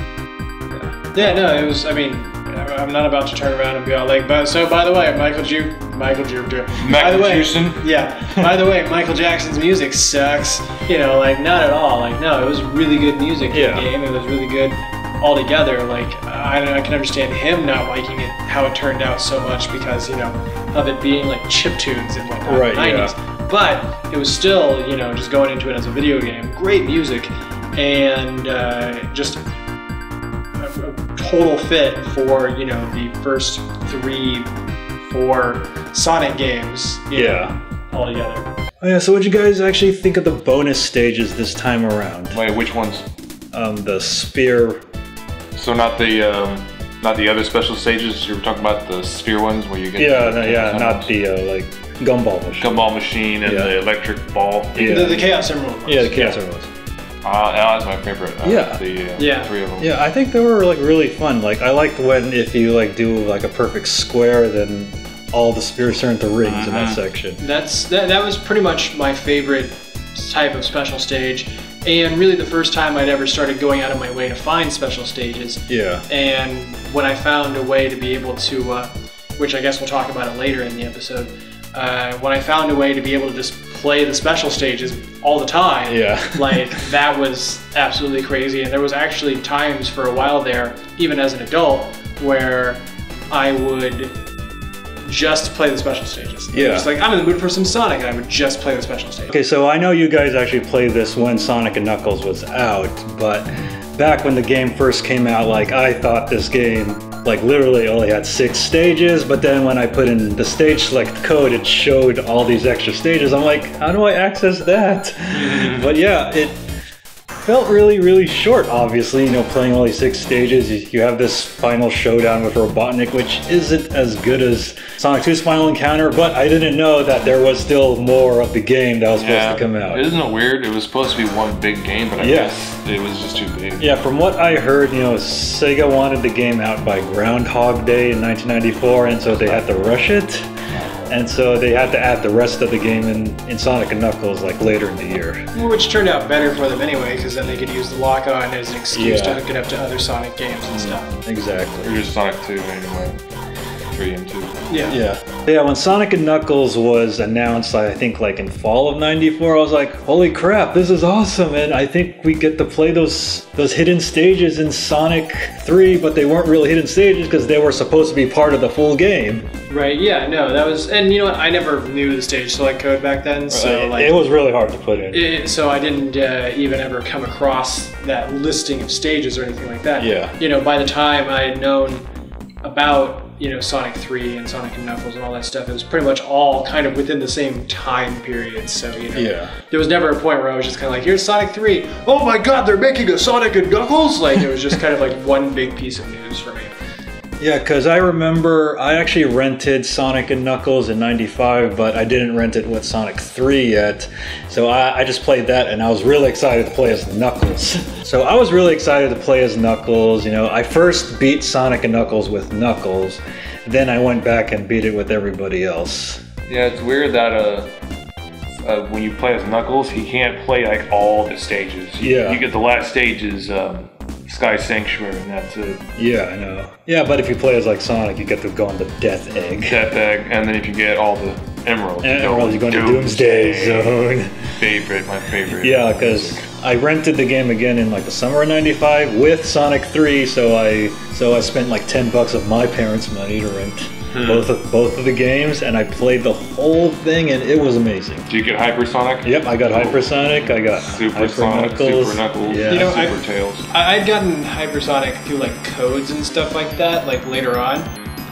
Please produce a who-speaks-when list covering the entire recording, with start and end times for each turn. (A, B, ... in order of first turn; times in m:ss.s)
0:01.1-0:29.4 A
0:01.2-0:01.7 B
0:06.8-0:07.8 B
0:13.5-0:13.9 C
0:22.4-0:23.1 C
0:30.6-0:34.5 A
0:35.1-0:38.5 A
0:37.1-0:37.5 C
0:38.8-0:42.4 C
0:42.3-0:43.0 B
0:43.5-0:44.8 C
0:45.6-0:51.1 B
0:50.0-0:52.8 C
0:52.6-0:55.3 B
0:53.4-0:53.7 C
0:54.7-0:55.2 C
0:54.8-0:56.2 A
0:55.8-0:56.7 C
0:56.1-0:56.4 B
0:57.2-0:59.9 B
0:58.4-0:58.8 C
0:59.2-0:59.5 A
0:59.8-1:07.4 C
1:06.4-1:07.0 B
1:07.4-1:34.1 A
1:15.7-1:16.0 C
1:25.9-1:26.8 C
1:35.0-1:39.4 A
1:36.5-1:36.9 C
1:39.3-1:56.6 C
1:55.3-1:56.0 B
1:57.4-2:10.0 C
2:09.2-2:13.9 B
2:12.2-2:12.6 C
2:13.8-2:20.5 C
2:21.1-2:25.4 C
2:25.5-2:31.2 A
2:28.9-2:29.4 C
2:31.2-2:31.9 C
2:31.8-2:33.2 B
2:33.9-2:34.6 B
2:34.7-2:35.0 A
2:34.8-2:49.4 C
2:49.7-2:54.2 A
2:53.5-2:55.3 C
2:55.1-3:02.0 A
3:00.0-3:00.3 C
3:02.6-3:16.7 A
3:09.1-3:09.5 C
3:17.4-3:36.2 C
3:36.5-3:37.7 B
3:38.6-3:45.8 B
3:42.0-3:42.4 C
3:46.0-3:49.8 C
3:49.6-3:54.0 B
3:52.0-3:54.4 C
3:54.5-3:56.5 B
3:55.5-4:08.3 C
4:04.1-4:04.5 B
4:08.3-4:13.7 B
4:09.2-4:13.0 C
4:12.6-4:17.9 A